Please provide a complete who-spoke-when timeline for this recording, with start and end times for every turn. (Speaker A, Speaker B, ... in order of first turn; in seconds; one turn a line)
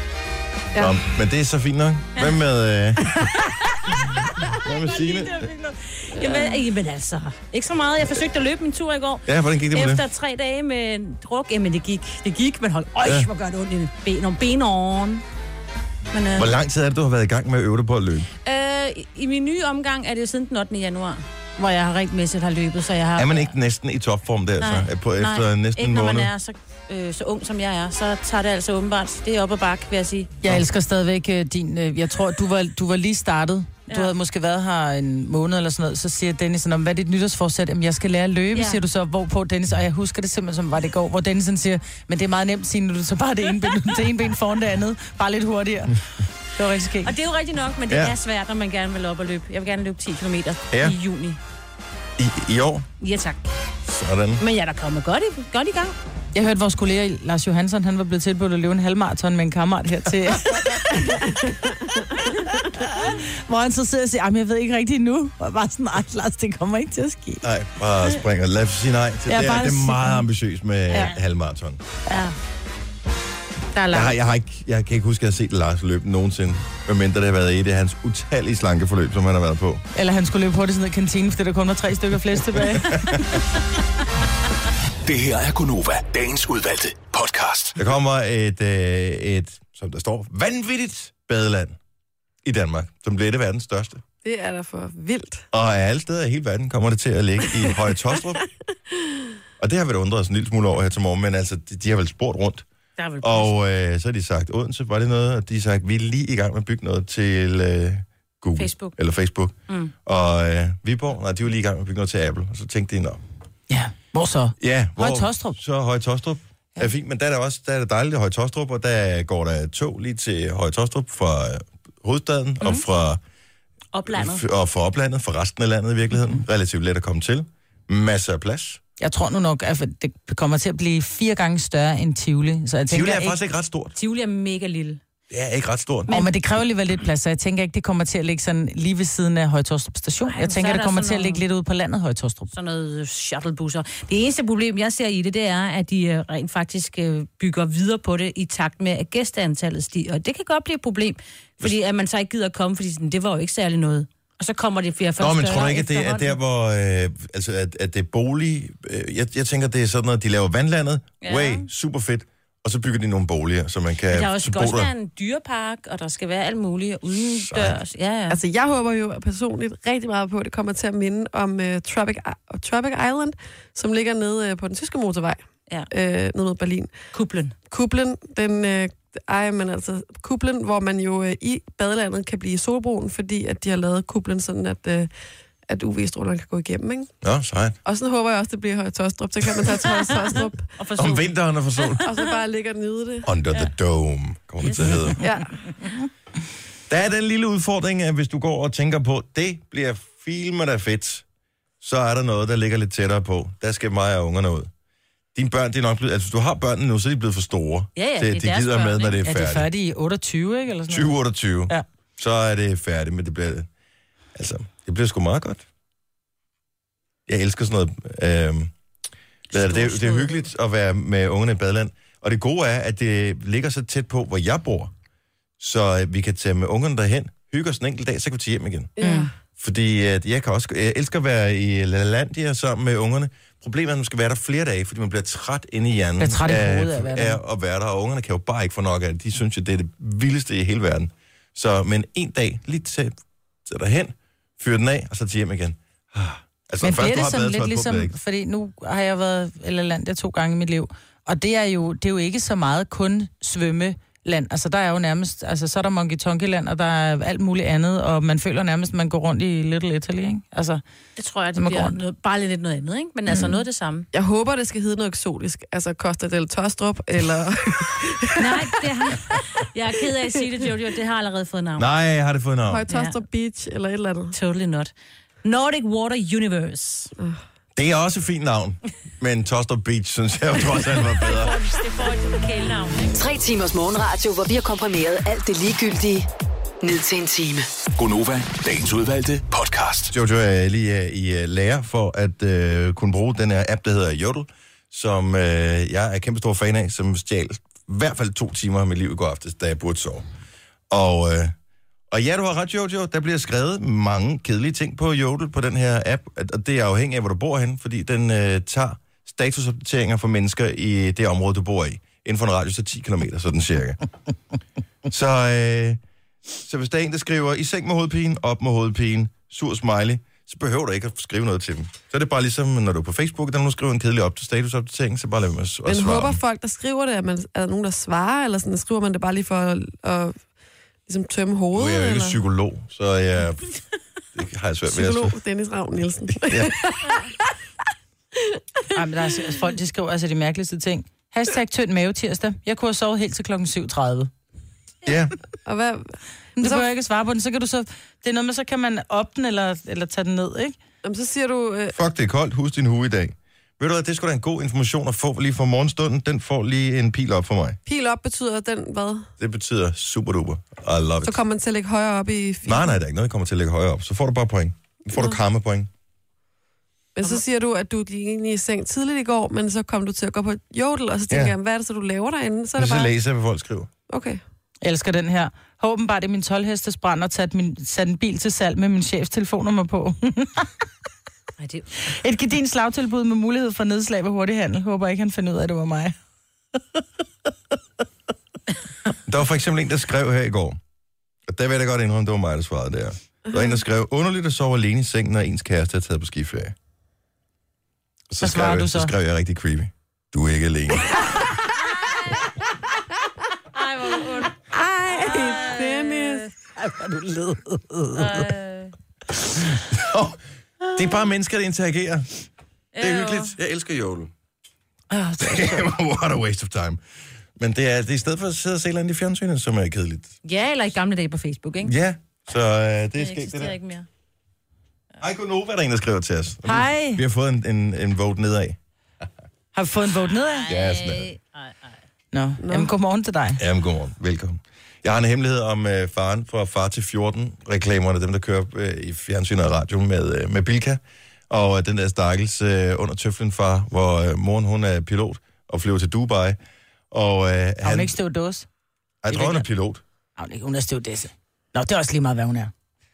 Speaker A: 0.8-3.1
Speaker B: 3.3-3.8
Speaker A: 4.0-5.5
Speaker B: 4.5-15.2
Speaker C: 6.1-6.6
Speaker A: 9.3-10.0
Speaker A: 13.0-13.3
Speaker B: 16.1-16.5
Speaker A: 16.4-18.3
Speaker B: 18.4-23.5
Speaker A: 23.2-26.3
Speaker B: 24.6-30.4
Speaker D: 30.4-47.1
Speaker B: 33.9-34.1
Speaker B: 38.5-38.8
Speaker B: 47.0-51.4
Speaker A: 47.9-48.1
Speaker A: 52.2-52.9
Speaker B: 53.0-53.5
Speaker A: 53.9-54.4
Speaker B: 54.4-55.9
Speaker D: 56.3-61.5
Speaker D: 62.5-67.4
Speaker A: 67.4-71.8
Speaker D: 69.3-70.2
Speaker B: 72.1-72.3
Speaker D: 73.8-74.1
Speaker A: 73.9-79.8
Speaker D: 79.9-83.4
Speaker A: 82.8-83.2
Speaker E: 85.0-87.8
Speaker A: 87.8-91.8
Speaker A: 92.5-94.0
Speaker C: 94.2-95.5
Speaker A: 95.5-98.4
Speaker C: 98.9-99.3
Speaker A: 99.6-102.7
Speaker B: 103.0-103.5
Speaker A: 103.2-113.2
Speaker B: 108.6-109.0
Speaker B: 109.7-109.9
Speaker D: 113.7-115.6
Speaker A: 114.6-123.2
Speaker B: 123.9-124.4
Speaker A: 124.1-128.8
Speaker D: 129.0-133.4
Speaker A: 132.9-133.9
Speaker B: 134.0-135.0
Speaker A: 135.3-136.1
Speaker B: 136.1-136.3
Speaker D: 136.1-142.5
Speaker B: 140.3-141.4
Speaker B: 142.5-156.4
Speaker A: 155.2-164.9
Speaker B: 161.2-161.7
Speaker B: 164.1-168.4
Speaker A: 167.2-167.8
Speaker C: 168.3-176.9
Speaker B: 177.1-177.6
Speaker C: 177.7-185.1
Speaker C: 185.7-187.1
Speaker A: 187.2-187.8
Speaker C: 187.8-190.7
Speaker B: 190.8-192.3
Speaker A: 191.0-192.0
Speaker C: 192.0-193.3
Speaker A: 193.2-195.2
Speaker B: 194.6-195.3
Speaker C: 195.2-195.6
Speaker A: 196.9-201.2
Speaker A: 201.8-204.7
Speaker A: 205.3-209.7
Speaker B: 208.0-209.2
Speaker D: 209.2-211.2
Speaker A: 210.9-213.7
Speaker A: 214.3-215.6
Speaker A: 217.3-218.7
Speaker B: 219.5-220.3
Speaker A: 219.5-224.9
Speaker A: 225.6-228.9
Speaker C: 229.0-229.3
Speaker D: 229.0-229.3
Speaker A: 229.6-248.1
Speaker D: 236.2-237.4
Speaker D: 246.8-260.8
Speaker B: 261.2-264.1
Speaker D: 261.6-262.0
Speaker C: 264.1-268.8
Speaker B: 268.4-271.9
Speaker A: 271.8-272.8
Speaker C: 272.7-274.4
Speaker B: 272.9-273.2
Speaker B: 274.3-274.9
Speaker B: 275.4-277.1
Speaker A: 277.8-281.6
Speaker B: 281.2-283.1
Speaker F: 283.1-286.3
Speaker F: 286.8-287.7
Speaker E: 287.9-290.1
Speaker A: 290.1-300.3
Speaker A: 300.9-301.5
Speaker A: 302.1-314.0
Speaker A: 315.1-316.0
Speaker A: 316.6-326.4
Speaker C: 325.9-330.4
Speaker C: 331.1-332.4
Speaker A: 331.7-333.8
Speaker A: 334.4-335.4
Speaker C: 334.9-337.5
Speaker A: 336.4-336.8
Speaker C: 338.4-338.9
Speaker D: 338.9-344.3
Speaker A: 345.1-345.3
Speaker C: 345.6-346.9
Speaker D: 346.6-350.8
Speaker C: 351.0-351.9
Speaker A: 351.9-357.8
Speaker C: 357.9-359.3
Speaker A: 359.4-361.4
Speaker C: 361.2-363.0
Speaker A: 362.7-365.9
Speaker C: 365.1-365.4
Speaker C: 367.2-373.1
Speaker A: 371.3-371.6
Speaker A: 372.8-373.9
Speaker C: 374.1-374.4
Speaker D: 374.8-380.7
Speaker B: 381.6-381.9
Speaker D: 382.1-386.1
Speaker A: 389.3-390.8
Speaker A: 391.5-396.8
Speaker A: 398.3-401.4
Speaker D: 398.4-399.1
Speaker B: 402.0-402.3
Speaker B: 403.7-404.6
Speaker C: 404.7-406.5
Speaker B: 405.1-406.5
Speaker D: 406.8-408.4
Speaker B: 408.1-408.9
Speaker A: 409.9-410.4
Speaker A: 410.9-412.3
Speaker B: 412.9-413.6
Speaker A: 413.0-414.3
Speaker B: 415.1-415.7
Speaker A: 415.4-417.0
Speaker A: 417.6-420.3
Speaker B: 420.4-421.9
Speaker A: 421.8-423.8
Speaker B: 423.2-424.1
Speaker A: 425.2-428.8
Speaker D: 426.6-427.2
Speaker D: 429.7-430.7
Speaker B: 430.6-431.9
Speaker A: 430.7-431.3
Speaker D: 432.3-433.6
Speaker C: 432.6-432.9
Speaker A: 433.6-446.6
Speaker A: 447.1-448.2
Speaker D: 447.8-448.7
Speaker A: 449.2-450.0
Speaker D: 449.3-449.6
Speaker D: 450.4-452.7